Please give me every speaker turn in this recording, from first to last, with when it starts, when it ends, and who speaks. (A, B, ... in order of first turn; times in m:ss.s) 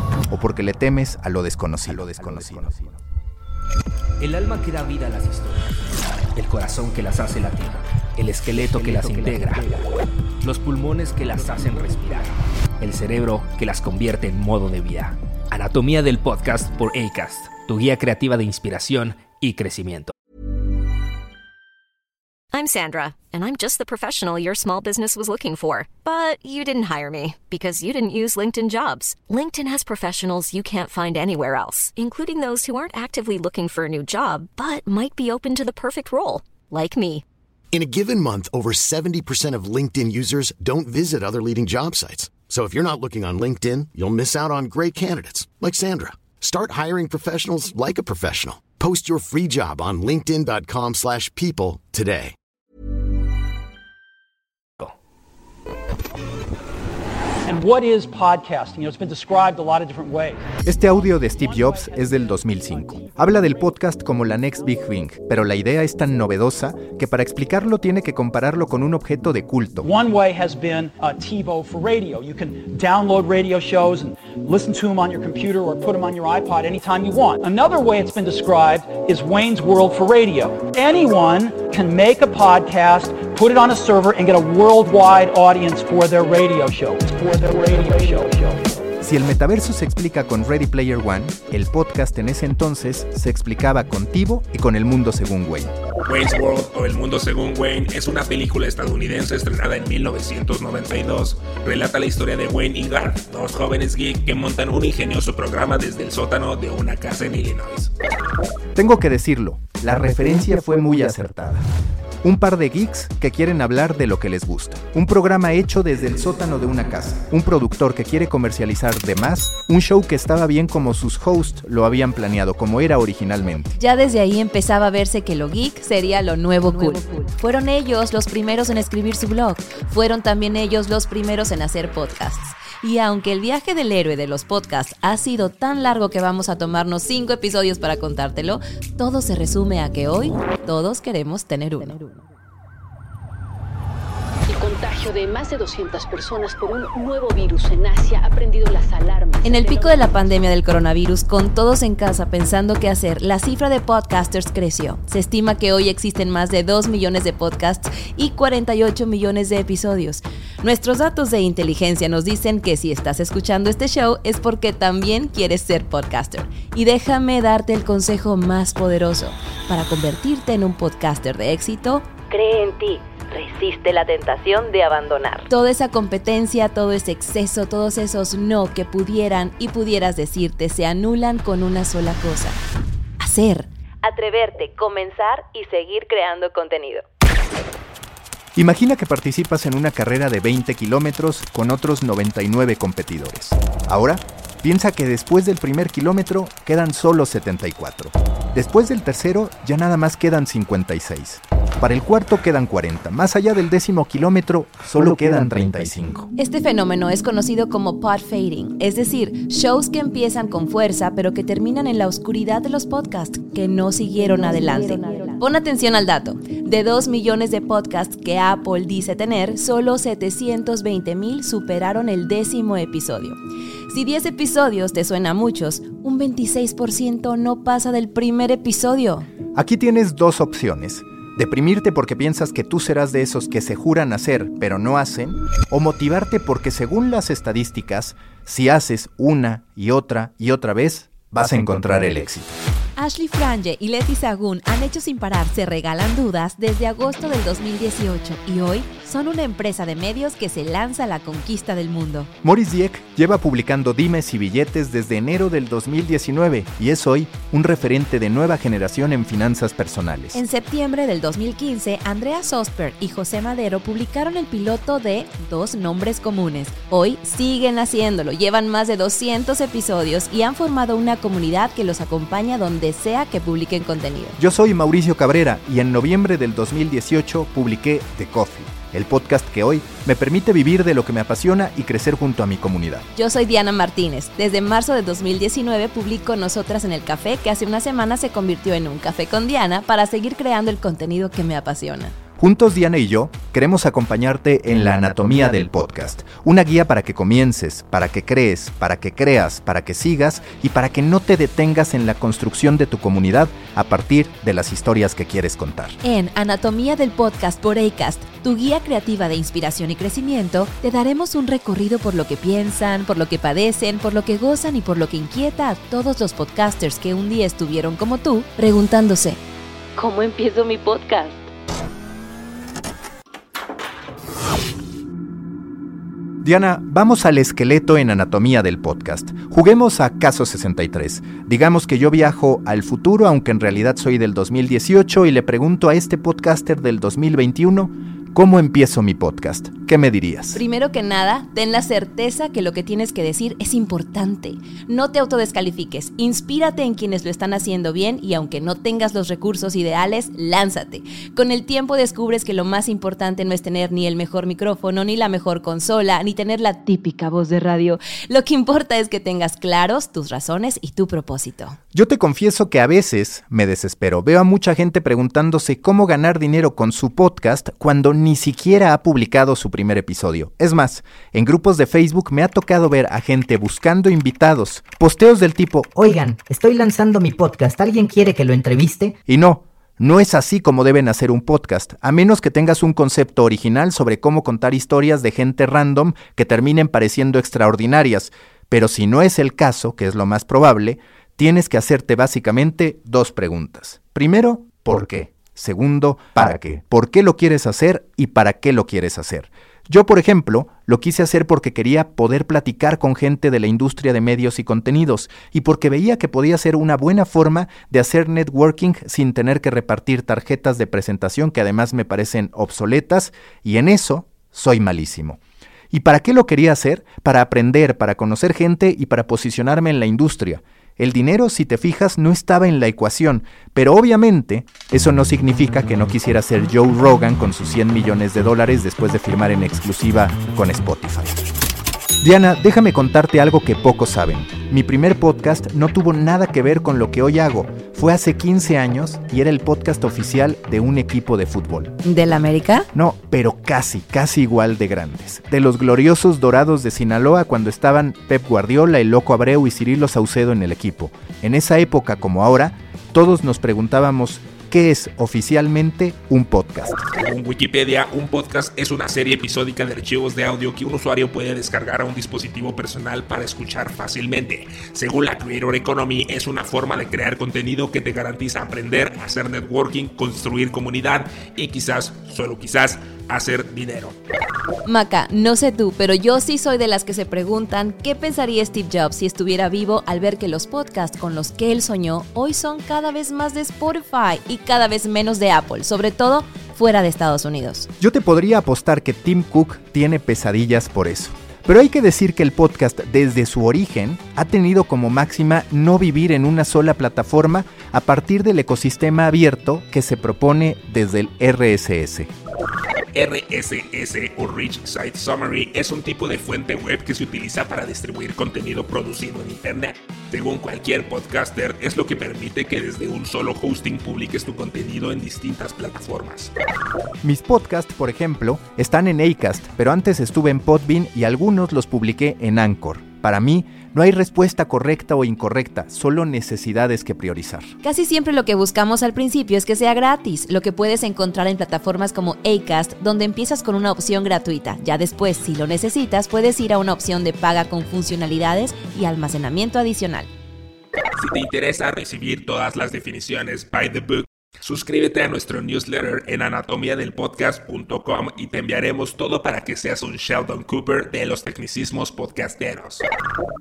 0:00.3-0:02.9 A
0:04.2-0:05.8 B
0:06.3-0:09.8 B
0:10.4-0:20.1 B
0:22.5-0:37.2 C
0:37.7-0:52.3 D
0:57.5-1:00.4 E
1:00.6-1:09.9 A
1:01.0-1:03.7 E
1:09.8-1:28.6 E
1:29.0-1:35.7 A
1:36.0-1:47.9 F
1:48.7-1:51.6 A
1:52.2-2:03.8 A
2:03.8-2:22.2 G
2:24.5-2:30.1 H
2:29.4-3:02.6 G
2:53.4-2:55.3 I
3:03.2-3:07.0 G
3:08.6-3:26.3 A
3:26.4-3:43.4 G
3:43.9-3:49.3 G
3:49.5-4:02.5 A
4:03.0-4:12.3 G
4:12.4-4:20.4 A
4:20.3-4:34.4 G
4:34.4-4:43.0 A
4:43.1-4:52.1 G
4:52.4-5:06.0 A
5:06.0-5:19.4 G
5:20.0-5:21.4 G
5:20.1-5:20.7 I
5:26.4-5:40.6 A
5:40.5-6:01.8 G
6:01.9-6:16.1 A
6:16.2-6:19.1 I
6:19.2-6:55.4 A
6:55.9-7:11.4 A
7:12.2-7:21.9 A
7:22.0-7:22.9 G
7:22.9-7:37.0 A
7:37.1-7:54.1 F
7:54.8-8:07.9 G
8:08.0-8:22.3 A
8:23.1-8:36.5 F
8:37.2-8:47.7 A
8:47.8-9:00.3 G
9:01.2-9:13.0 F